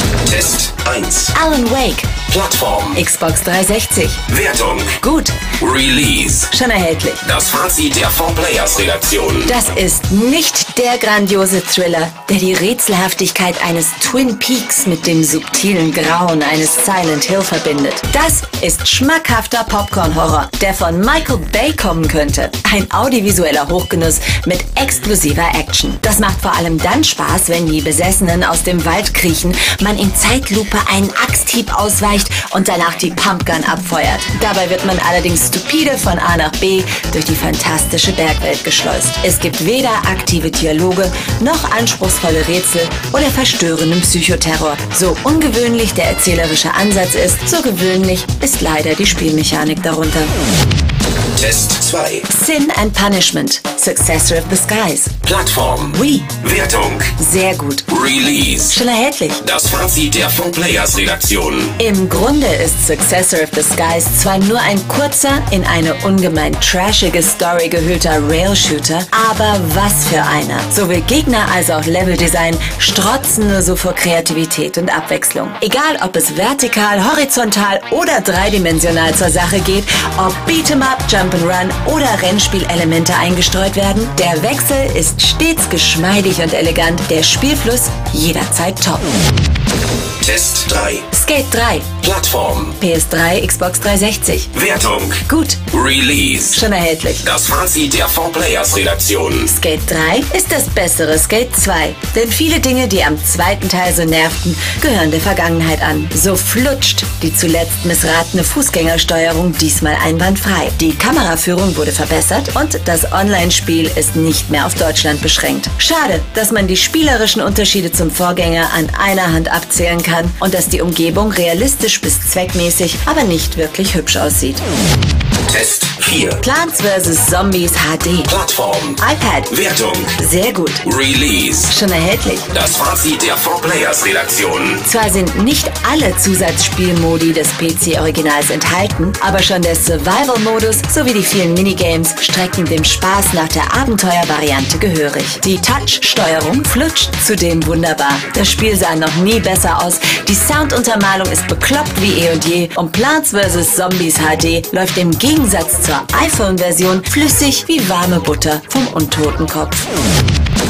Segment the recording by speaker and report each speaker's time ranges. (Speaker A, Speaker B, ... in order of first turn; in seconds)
Speaker A: 0.2-1.3, 2.2-3.0, 4.3-5.0, 5.5-6.5, 7.2-9.6, 51.4-52.3, 55.2-57.1, 57.9-58.8, 59.4-61.7, 90.2-91.1, 92.0-92.8, 94.5-96.6, 97.2-99.5, 125.5-126.4, 128.2-130.2, 130.8-131.7, 132.5-134.8
Speaker B: 1.3-2.2, 2.9-4.3, 5.0-5.5, 6.5-7.2, 9.4-50.3, 52.3-55.2, 55.9-56.4, 57.2-57.9, 58.7-59.4, 61.8-89.1, 91.1-92.0, 92.8-94.5, 95.2-95.7, 96.5-97.3, 99.4-124.6, 126.4-128.3, 129.0-129.6, 130.1-130.8, 131.7-132.5, 134.8-159.9